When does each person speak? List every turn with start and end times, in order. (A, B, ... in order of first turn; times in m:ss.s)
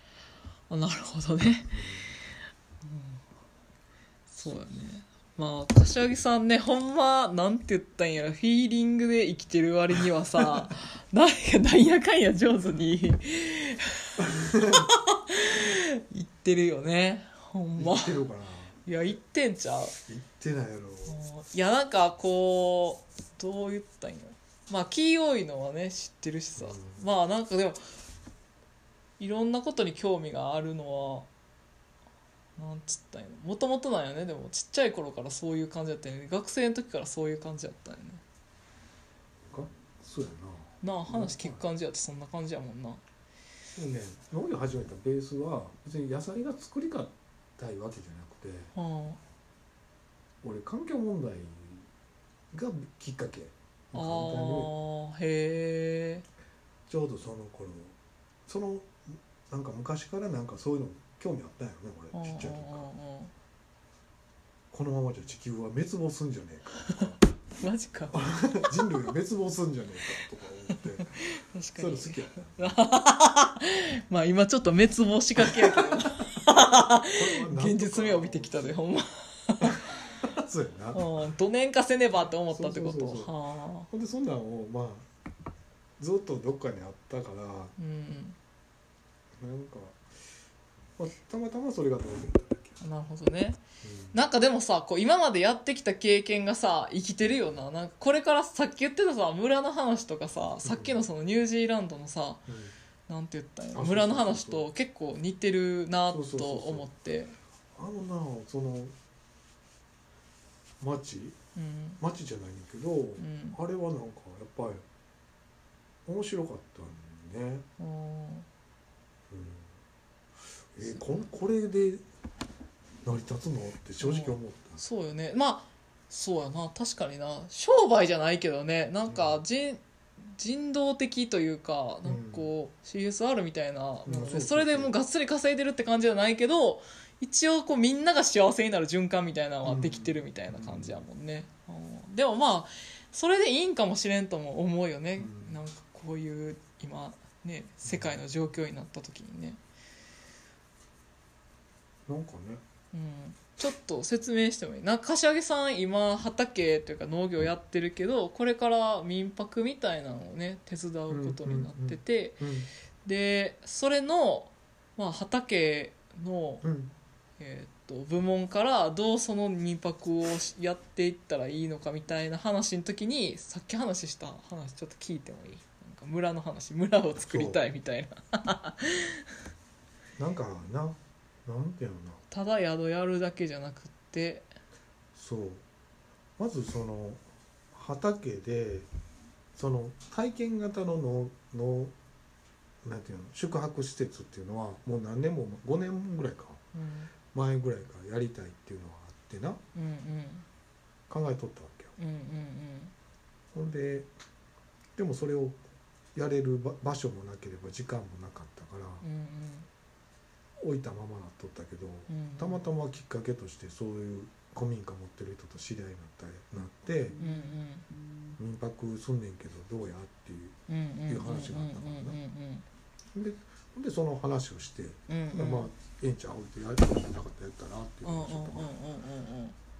0:00.7-0:01.7 A
0:01.7-0:02.1 B
0:02.8-0:03.2 A
0:04.3-0:18.2 A
0:04.4-0:04.8 B
0:14.2-0:14.9 B
0:17.8-0:18.8 B
0:18.8-0:20.0 A
0:20.1-0:21.2 B
0:21.1-0:27.9 A
0:26.6-0:27.0 B
0:29.2-0:31.3 A
0:32.6-0:38.2 A
0:39.5-0:41.6 B
0:40.8-0:43.0 A
0:43.8-0:48.7 B
0:48.7-0:49.2 A
0:50.4-0:51.9 B
0:52.5-0:54.7 B
0:53.9-0:56.3 A
0:56.9-1:02.9 B
1:02.1-1:03.3 A
1:04.7-1:07.2 B
1:07.6-1:08.2 A
1:08.1-1:11.2 B
1:10.7-1:19.8 A
1:11.8-1:12.8 B
1:15.4-1:16.3 B
1:17.0-1:18.8 B
1:19.6-1:21.0 B
1:20.9-1:23.9 A
1:22.5-1:23.3 B
1:23.9-1:25.1 B
1:26.0-1:27.8 B
1:27.8-1:28.4 A
1:29.4-1:30.0 B
1:31.0-1:32.8 B
1:32.8-1:33.6 A
1:33.8-1:34.2 B
1:34.1-1:42.4 A
1:40.6-1:41.0 B
1:42.5-1:42.8 B
1:43.1-1:47.4 A
1:43.8-1:44.7 B
1:46.1-1:46.9 B
1:47.8-1:48.9 B
1:50.8-1:51.4 B
1:51.6-1:52.0 A
1:52.0-1:54.8 B
1:53.2-1:53.6 A
1:56.1-1:57.7 B
1:57.8-1:58.5 A
1:59.3-1:59.8 B
2:00.7-2:02.0 B
2:00.8-2:01.3 A
2:03.0-2:04.8 B
2:04.0-2:29.6 A
2:09.1-2:09.4 B
2:12.0-2:12.5 B
2:14.0-2:15.0 B
2:19.6-2:21.0 B
2:25.2-2:25.6 B
2:27.9-2:28.2 B
2:32.1-2:32.6 B
2:32.9-2:42.4 A
2:41.1-2:42.7 B
2:43.0-2:46.6 A
2:46.6-2:46.9 B
2:47.4-2:59.3 A
2:57.3-2:57.6 B
3:00.2-3:02.2 B
3:02.3-3:04.5 A
3:05.2-3:05.6 B
3:06.4-3:08.9 B
3:09.6-3:11.9 B
3:12.8-3:16.6 B
3:16.7-3:17.1 A
3:17.3-3:19.6 B
3:19.7-3:20.5 A
3:21.1-3:22.0 B
3:22.0-3:22.9 A
3:23.5-3:24.1 B
3:25.0-3:25.6 B
3:26.2-3:29.1 B
3:29.0-3:29.7 A
3:30.6-3:37.2 B
3:32.1-3:32.6 A
3:37.2-3:37.9 A
3:38.4-3:42.2 B
3:40.7-3:42.6 A
3:43.1-3:48.7 B
3:45.1-3:45.7 A
3:48.0-3:49.6 A